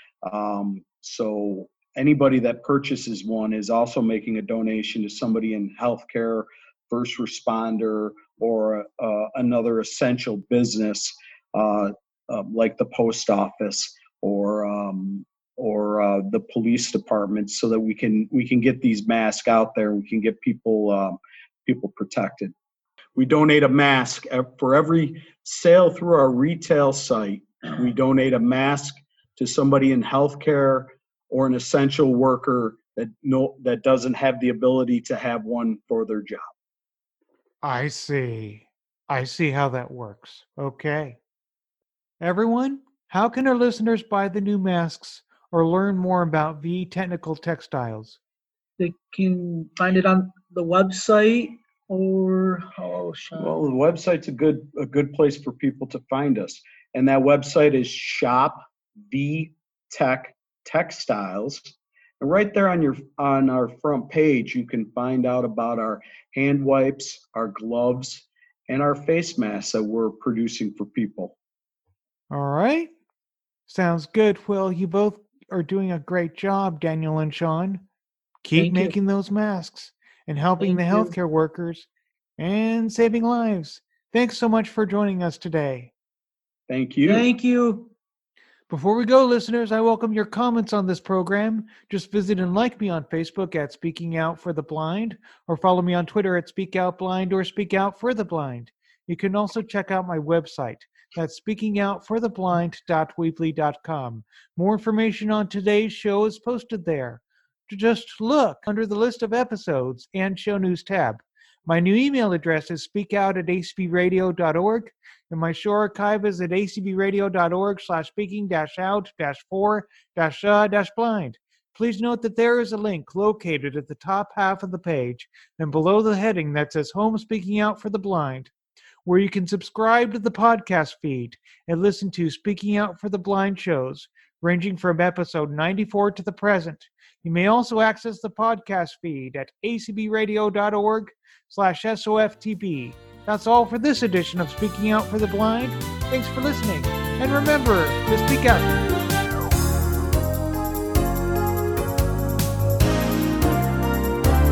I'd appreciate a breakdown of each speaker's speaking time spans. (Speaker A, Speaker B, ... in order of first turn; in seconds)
Speaker A: 0.2-22.5, 23.1-36.5, 53.4-71.3, 86.7-87.3
Speaker B: 37.6-41.2, 42.2-48.2, 72.3-72.9, 73.7-77.8, 78.4-81.9, 82.4-85.9, 88.7-128.5, 129.0-148.9
Speaker C: 48.8-53.6, 78.5-79.0, 80.6-81.1, 87.0-87.9